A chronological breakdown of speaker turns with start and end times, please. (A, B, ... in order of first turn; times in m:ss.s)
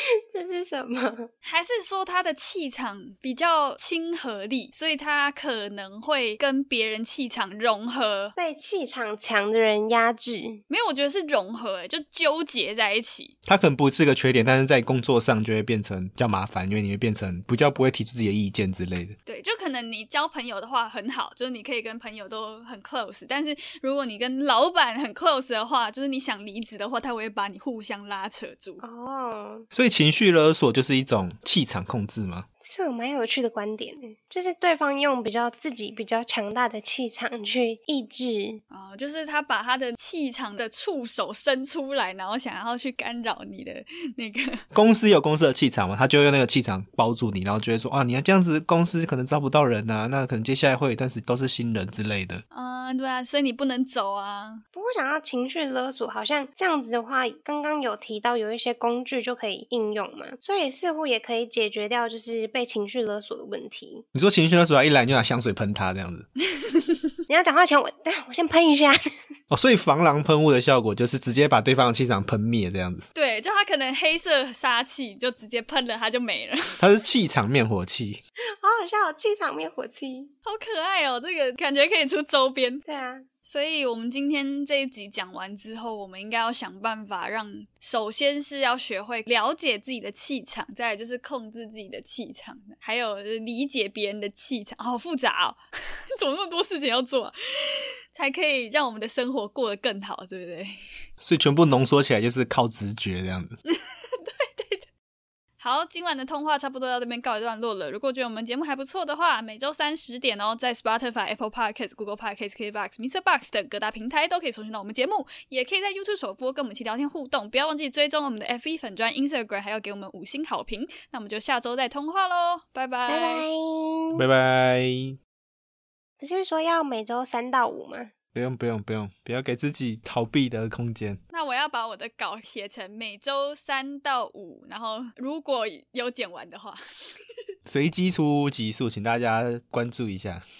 0:00.3-0:01.3 A
0:01.4-0:08.3 B
0:08.4-0:10.6 A
0:10.7-0:13.3 B
0:13.4-0:19.2 C
0:19.2-0:28.8 B
0:28.8-0:29.6 A
0:29.7-0:32.4 C
0:32.6-0:38.6 A
0:38.7-0:44.6 B
0:44.7-0:52.4 C
0:52.5-0:54.6 B
0:54.7-1:04.0 A
1:04.1-1:06.3 C
1:06.6-1:07.1 B
1:07.3-1:09.0 A
1:09.5-1:13.0 C
1:13.1-1:16.8 B
1:16.8-1:18.2 C
1:18.6-1:20.3 A
1:20.4-1:22.8 B
1:22.8-1:23.2 A
1:23.4-1:35.6 B
1:36.2-1:40.7 B
1:41.2-1:43.6 C
1:43.7-1:44.8 B
1:45.6-2:03.4 B
2:03.1-2:04.2 A
2:04.2-2:05.2 C
2:06.2-2:08.1 A
2:08.3-2:11.2 C
2:11.3-2:16.8 B
2:17.6-2:20.4 C